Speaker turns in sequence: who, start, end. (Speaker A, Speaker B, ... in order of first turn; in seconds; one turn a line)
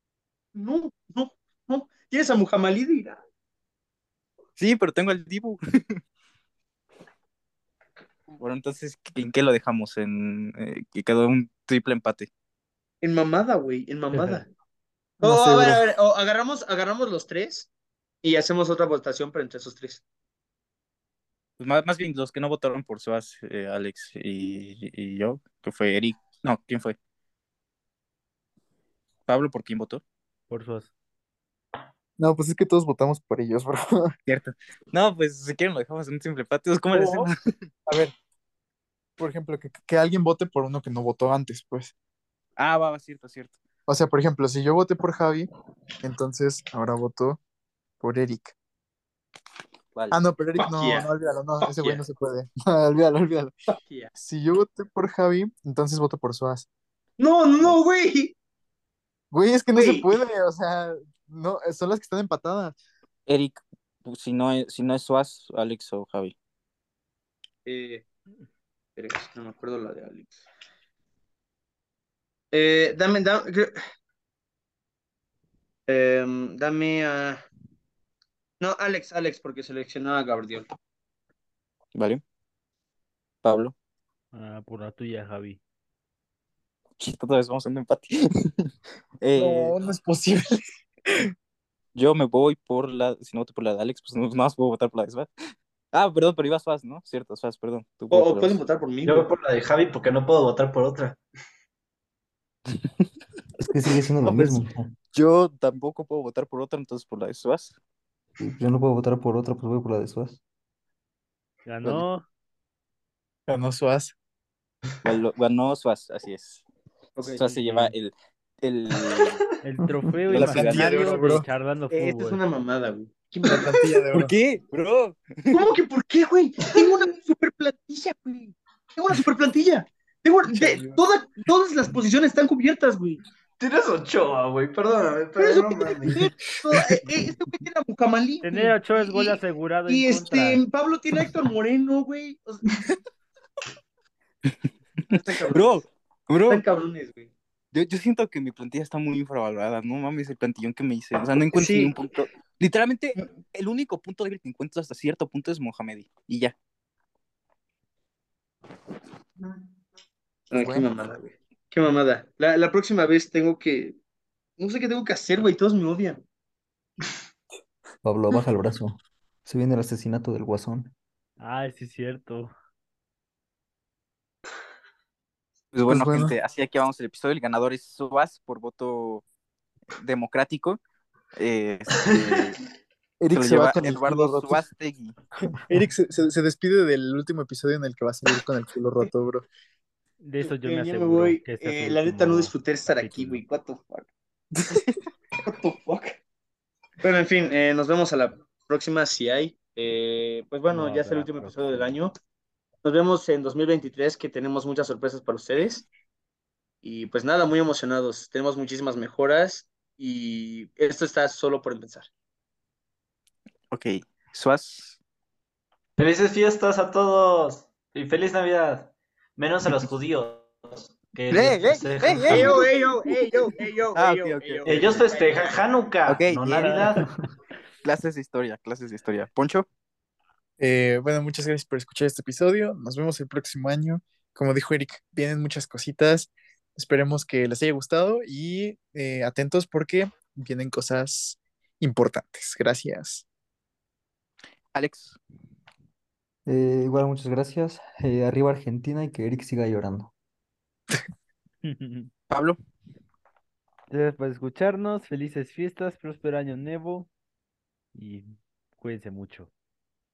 Speaker A: 0.6-3.2
Speaker B: 4.6-6.0
Speaker B: 8.3-12.3
Speaker A: 13.0-14.4
Speaker C: 14.1-14.5
Speaker A: 15.2-17.7
Speaker D: 15.2-15.9
Speaker A: 18.2-20.0
Speaker B: 21.6-27.0
Speaker B: 29.3-30.0
Speaker C: 30.5-30.9
Speaker D: 32.2-34.1
Speaker B: 34.3-37.5
Speaker D: 37.0-37.2
Speaker D: 37.9-38.1
Speaker D: 39.2-41.9
Speaker B: 42.6-43.5
Speaker D: 43.9-45.5
Speaker D: 46.0-47.4
Speaker D: 48.0-48.5
Speaker B: 50.0-50.2
Speaker D: 50.1-53.5
Speaker A: 50.6-51.1
Speaker A: 51.6-52.0
Speaker A: 53.7-54.1
Speaker D: 54.2-56.7
Speaker A: 57.2-58.3
Speaker D: 59.3-62.8
Speaker A: 59.8-60.2
Speaker B: 63.3-66.3
Speaker A: 67.7-68.0
Speaker A: 69.0-70.4
Speaker A: 72.5-73.7
Speaker A: 75.9-77.4
Speaker A: 78.6-80.7
Speaker B: 82.0-82.2
Speaker B: 83.4-83.7
Speaker C: 84.3-85.6
Speaker B: 87.0-88.7
Speaker B: 89.2-89.8
Speaker D: 89.4-90.6
Speaker B: 92.0-95.3
Speaker B: 95.9-98.6
Speaker A: 98.1-99.3
Speaker E: 99.0-101.2
Speaker F: 103.6-104.9
Speaker A: 104.3-104.6
Speaker B: 105.1-107.8
Speaker F: 108.4-110.4
Speaker C: 111.7-112.2
Speaker D: 113.5-114.1
Speaker B: 115.0-116.6
Speaker B: 117.2-119.4
Speaker C: 117.4-117.9
Speaker E: 119.1-119.4
Speaker C: 119.6-122.4
Speaker B: 120.3-121.1
Speaker D: 120.3-121.4
Speaker A: 121.9-123.9
Speaker D: 123.4-124.3
Speaker B: 124.1-125.7
Speaker A: 125.5-133.2
Speaker E: 126.6-126.9
Speaker D: 130.5-131.0
Speaker E: 133.6-136.3
Speaker A: 135.4-142.8
Speaker C: 138.4-140.6
Speaker B: 144.5-146.6
Speaker A: 145.1-145.9
Speaker A: 146.5-147.3
Speaker B: 147.7-156.5
Speaker A: 151.5-151.9
Speaker A: 160.5-164.0
Speaker D: 160.5-160.9
Speaker A: 164.6-166.2
Speaker F: 168.0-170.9
Speaker C: 171.4-172.5
Speaker B: 175.7-179.2
Speaker D: 175.9-176.3
Speaker B: 180.0-180.8
Speaker B: 181.4-182.6
Speaker D: 183.2-184.6
Speaker B: 183.3-185.2
Speaker D: 185.7-189.5
Speaker C: 190.2-193.4
Speaker A: 190.4-194.1
Speaker A: 195.4-196.2
Speaker A: 197.0-202.2
Speaker C: 200.7-201.6
Speaker A: 202.8-205.9
Speaker A: 206.8-212.1
Speaker B: 213.7-215.0
Speaker E: 216.0-222.7
Speaker B: 221.3-222.7
Speaker A: 222.2-225.6
Speaker B: 223.9-225.0
Speaker E: 224.6-227.1
Speaker B: 226.1-227.0
Speaker B: 227.8-229.7
Speaker D: 230.6-243.2
Speaker B: 244.7-245.2
Speaker F: 246.5-250.1
Speaker C: 251.6-252.1
Speaker B: 252.3-252.6
Speaker C: 253.9-257.1
Speaker C: 257.9-259.5